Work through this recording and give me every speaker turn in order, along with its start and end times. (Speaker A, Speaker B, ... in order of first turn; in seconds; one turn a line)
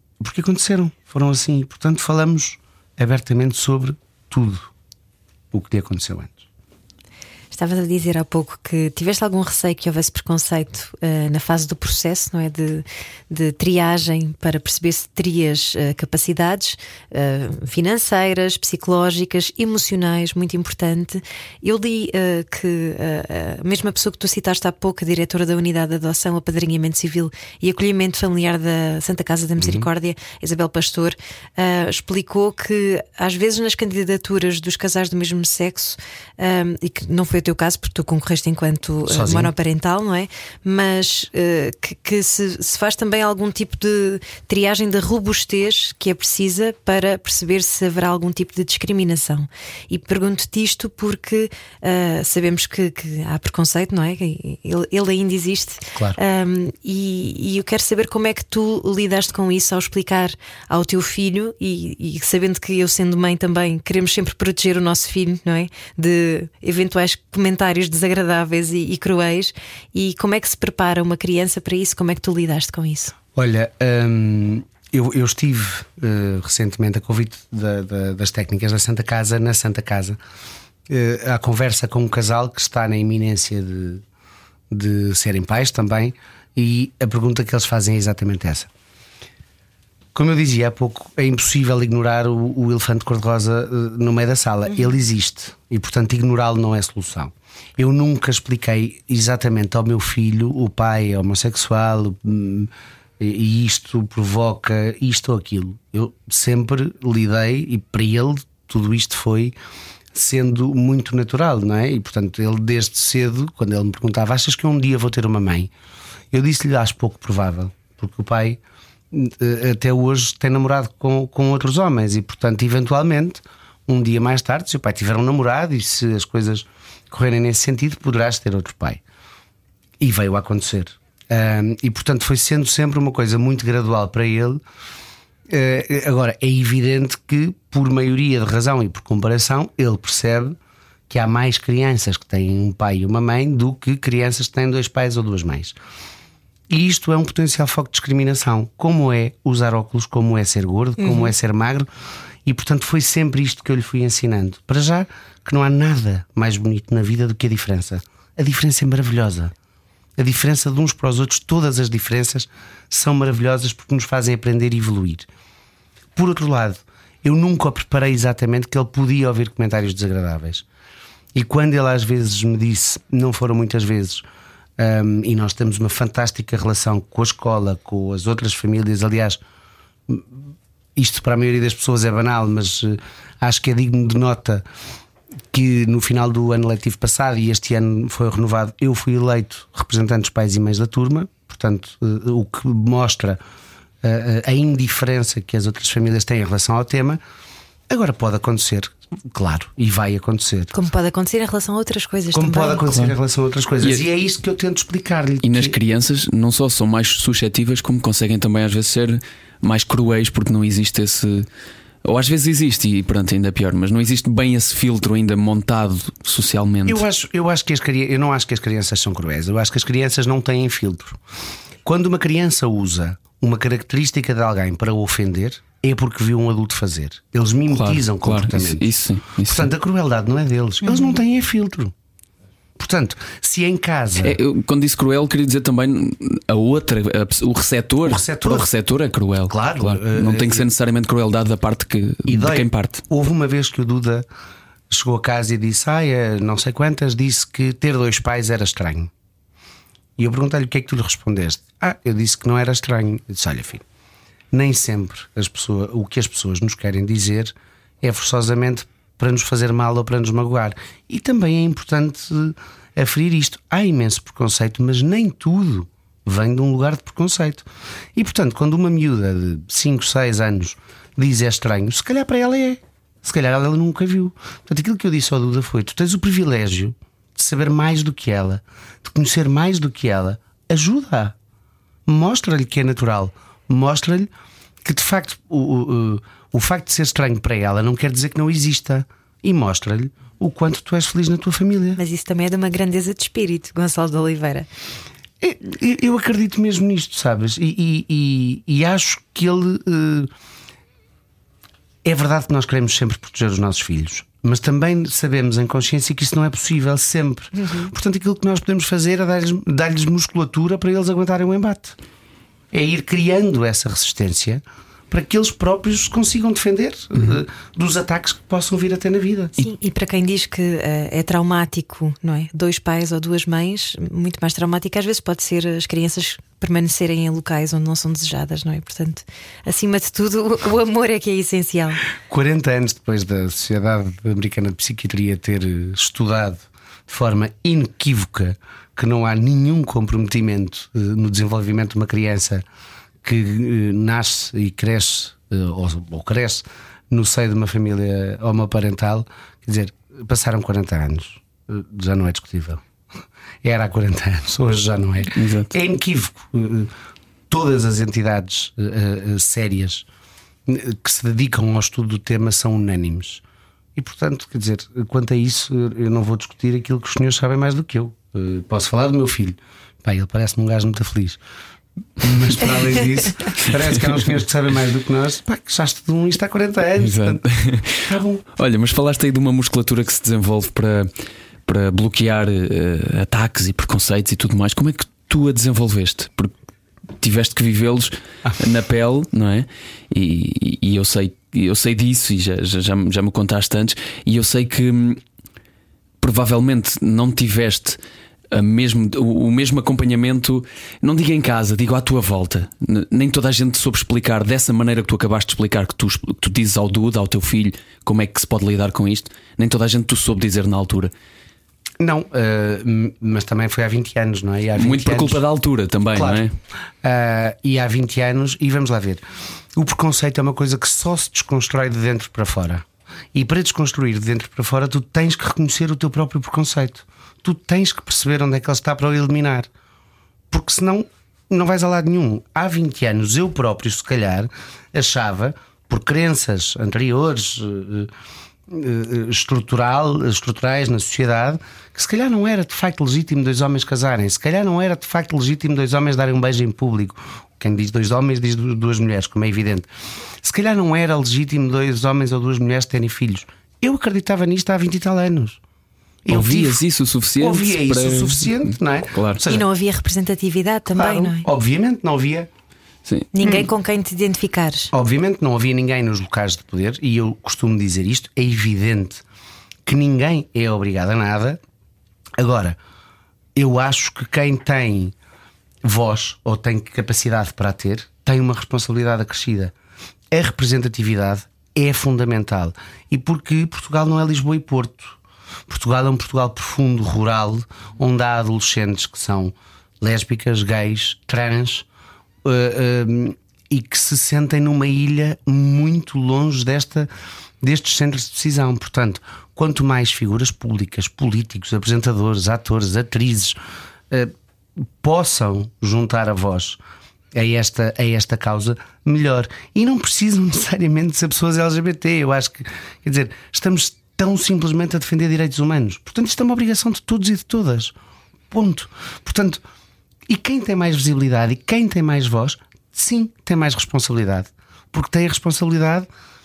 Speaker A: 0.2-4.7
Speaker A: 5.5-6.4
Speaker B: 7.5-73.1
Speaker A: 29.6-29.9
Speaker A: 39.1-39.5
Speaker A: 73.3-80.2
Speaker A: 80.9-84.0
Speaker A: 84.7-88.7
Speaker A: 90.1-109.5
Speaker A: 110.1-115.7
Speaker A: 116.3-118.6
Speaker A: 119.1-129.0
Speaker A: 130.0-134.6
Speaker A: 135.5-140.6
Speaker A: 141.1-145.8
Speaker A: 146.7-151.9
Speaker A: 152.4-159.5
Speaker A: 160.2-165.3
Speaker A: 166.1-170.6
Speaker A: 171.3-174.2
Speaker A: 174.8-179.4
Speaker A: 181.0-184.6
Speaker A: 185.5-193.4
Speaker A: 194.0-197.2
Speaker A: 197.9-200.8
Speaker B: 200.7-202.9
Speaker A: 202.3-205.8
Speaker C: 205.4-211.5
Speaker C: 212.0-217.0
Speaker A: 216.9-221.2
Speaker A: 221.8-231.9
Speaker C: 227.7-229.7
Speaker A: 232.8-234.4
Speaker C: 234.2-243.0
Speaker A: 238.1-238.7
Speaker A: 239.5-240.7
Speaker A: 242.3-244.3
Speaker A: 244.9-249.1
Speaker A: 250.2-253.8
Speaker A: 254.5-281.4
Speaker A: 282.1-284.3
Speaker A: 284.8-292.0
Speaker B: 292.0-294.7
Speaker A: 295.4-300.3
Speaker A: 302.0-312.0
Speaker A: 312.7-319.5
Speaker B: 319.6-332.0
Speaker A: 332.3-342.6
Speaker A: 343.2-352.8
Speaker A: 353.6-356.9
Speaker C: 355.4-355.7
Speaker A: 357.5-360.1
Speaker A: 360.6-363.4
Speaker A: 363.9-371.4
Speaker A: 372.2-378.4
Speaker C: 377.0-378.0
Speaker C: 378.6-381.1
Speaker C: 381.6-386.5
Speaker C: 387.2-395.2
Speaker C: 396.2-398.0
Speaker C: 398.5-411.1
Speaker A: 412.0-415.4
Speaker C: 414.8-416.6
Speaker A: 416.1-416.4
Speaker A: 417.0-419.2
Speaker A: 419.8-429.7
Speaker A: 430.5-438.1
Speaker A: 438.7-449.9
Speaker A: 450.4-455.6
Speaker A: 456.2-456.8
Speaker C: 456.3-458.6
Speaker A: 457.4-459.6
Speaker C: 459.1-459.4
Speaker B: 459.5-461.5
Speaker A: 461.0-462.5
Speaker C: 463.1-463.3
Speaker B: 463.3-464.9
Speaker A: 464.9-469.2
Speaker A: 469.9-471.6
Speaker A: 472.4-472.8
Speaker A: 473.6-475.1
Speaker A: 475.8-479.7
Speaker A: 480.3-491.9
Speaker A: 492.4-497.1
Speaker A: 497.6-503.6
Speaker A: 505.0-506.8
Speaker A: 507.3-518.0
Speaker A: 518.5-519.6
Speaker A: 520.3-526.1